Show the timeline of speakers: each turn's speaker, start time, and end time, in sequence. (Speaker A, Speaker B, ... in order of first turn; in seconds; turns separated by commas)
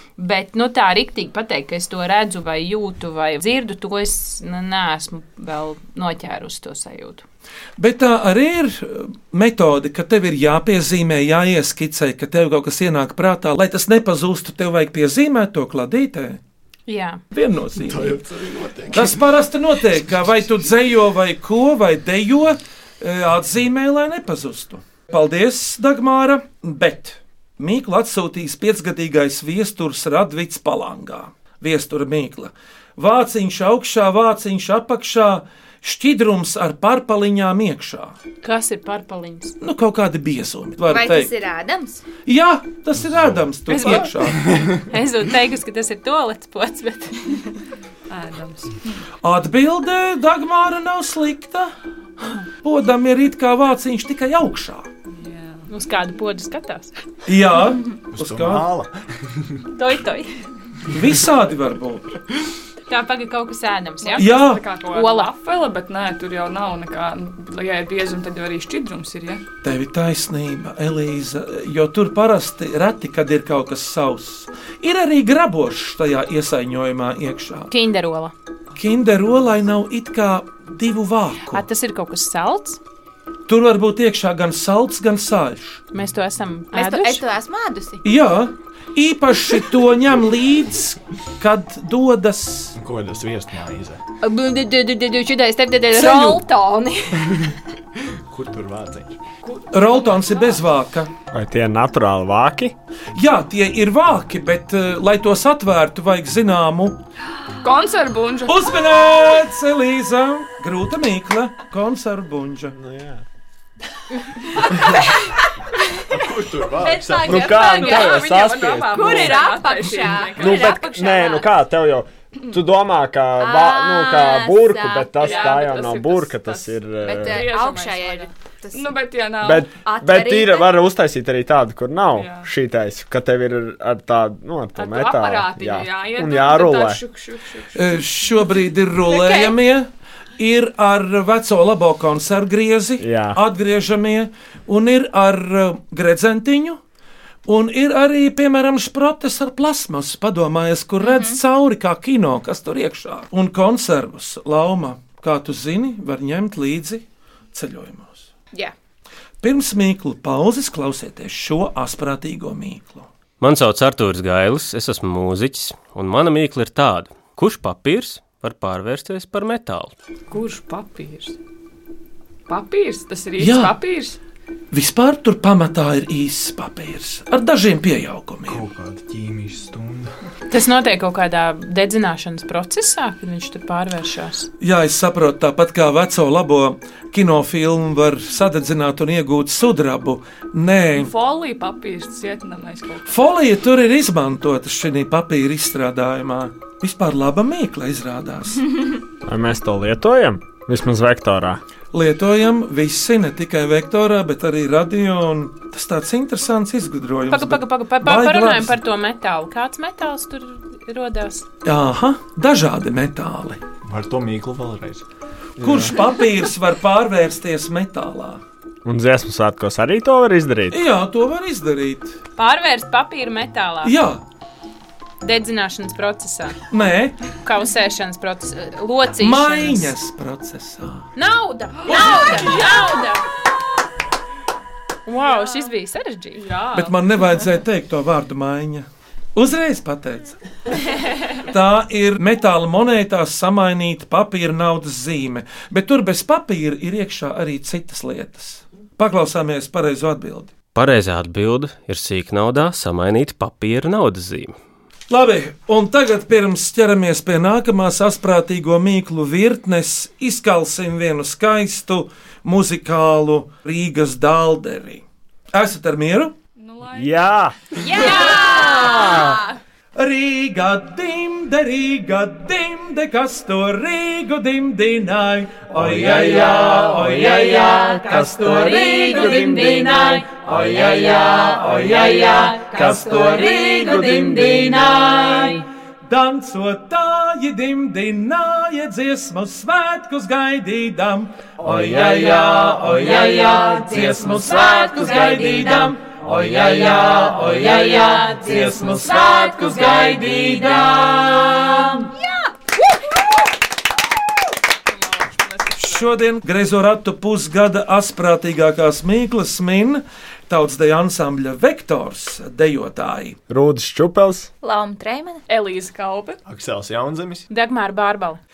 Speaker A: 0.2-7.2, Speaker B: 7.8-16.4, Speaker A: 16.9-17.2, Speaker B: 17.3-18.2, Speaker C: 17.8-19.2, Speaker B: 18.9-38.2, Speaker A: 38.4-39.6, Speaker B: 39.6-41.3, Speaker D: 40.9-42.0, Speaker B: 42.3-44.5, Speaker A: 43.7-44.1, Speaker A: 44.9-47.4, Speaker E: 48.1-49.0, Speaker B: 49.2-51.7, Speaker B: 52.6-54.9, Speaker E: 55.1-55.7, Speaker A: 55.7-56.9, Speaker B: 57.3-58.7, Speaker C: 58.1-59.6, Speaker A: 59.7-60.3, Speaker B: 60.9-62.1, Speaker A: 62.9-65.3, Speaker E: 64.0-69.4, Speaker B: 64.2-64.6, Speaker B: 69.6-77.7, Speaker A: 77.7-78.3, Speaker B: 78.8-81.7, Speaker A: 81.5-82.8, Speaker B: 83.5-85.8, Speaker A: 85.9-87.2, Speaker D: 86.7-88.0, Speaker B: 88.0-92.8, Speaker C: 92.8-94.0, Speaker A: 94.2-97.4, Speaker C: 98.3-99.2, Speaker E: 99.5-100.6, Speaker B: 99.7-101.1, Speaker F: 101.3-102.7, Speaker B: 103.2-107.0, Speaker E: 107.6-108.6, Speaker B: 108.5-112.8, Speaker F: 112.7-113.2, Speaker C: 116.1-117.6, Speaker D: 116.8-121.6, Speaker F: 117.2-119.5, Speaker E: 117.4-120.8, Speaker F: 120.3-127.5, Speaker D: 123.4-125.6, Speaker E: 125.2-129.7, Speaker D: 127.0-128.9, Speaker F: 129.4-137.0, Speaker D: 129.8-130.8, Speaker E: 132.1-132.5, Speaker E: 134.8-138.0, Speaker B: 137.8-146.8, Speaker F: 143.0-143.4, Speaker B: 147.4-158.3, Speaker D: 151.0-151.4, Speaker B: 159.4-163.1, Speaker G: 163.4-169.9, Speaker E: 170.3-171.4, Speaker E: 172.5-174.2, Speaker B: 173.4-173.8, Speaker B: 174.7-178.6, Speaker C: 178.5-180.1, Speaker A: 180.5-184.5, Speaker B: 184.6-191.1, Speaker E: 190.9-193.1, Speaker B: 193.1-198.7, Speaker F: 199.3-201.6, Speaker B: 201.9-208.8, Speaker A: 207.3-211.5, Speaker B: 211.6-213.6, Speaker C: 213.8-215.0, Speaker F: 215.6-216.0, Speaker B: 215.6-218.4, Speaker F: 218.8-220.8, Speaker B: 220.7-222.2, Speaker A: 222.4-223.9, Speaker B: 223.8-224.2, Speaker A: 225.2-226.6, Speaker B: 226.7-227.2, Speaker A: 227.4-229.9, Speaker B: 229.2-231.1, Speaker A: 231.2-233.2, Speaker E: 231.9-232.8, Speaker B: 231.9-232.3, Speaker A: 235.1-236.5, Speaker E: 235.2-235.7, Speaker E: 236.4-237.0, Speaker B: 236.7-240.4, Speaker B: 241.4-250.5, Speaker G: 250.7-254.6, Speaker B: 255.1-266.3, Speaker E: 266.6-267.4, Speaker F: 266.9-269.4, Speaker D: 267.8-269.4, Speaker E: 268.2-268.5, Speaker B: 268.5-268.8, Speaker B: 270.0-302.1, Speaker F: 275.8-278.5, Speaker A: 278.4-280.2, Speaker F: 279.1-279.7, Speaker A: 282.2-284.4, Speaker E: 304.9-306.1, Speaker B: 305.8-313.4, Speaker F: 313.5-314.5, Speaker D: 314.6-315.4, Speaker E: 315.5-316.4, Speaker C: 316.4-317.5, Speaker A: 317.5-318.4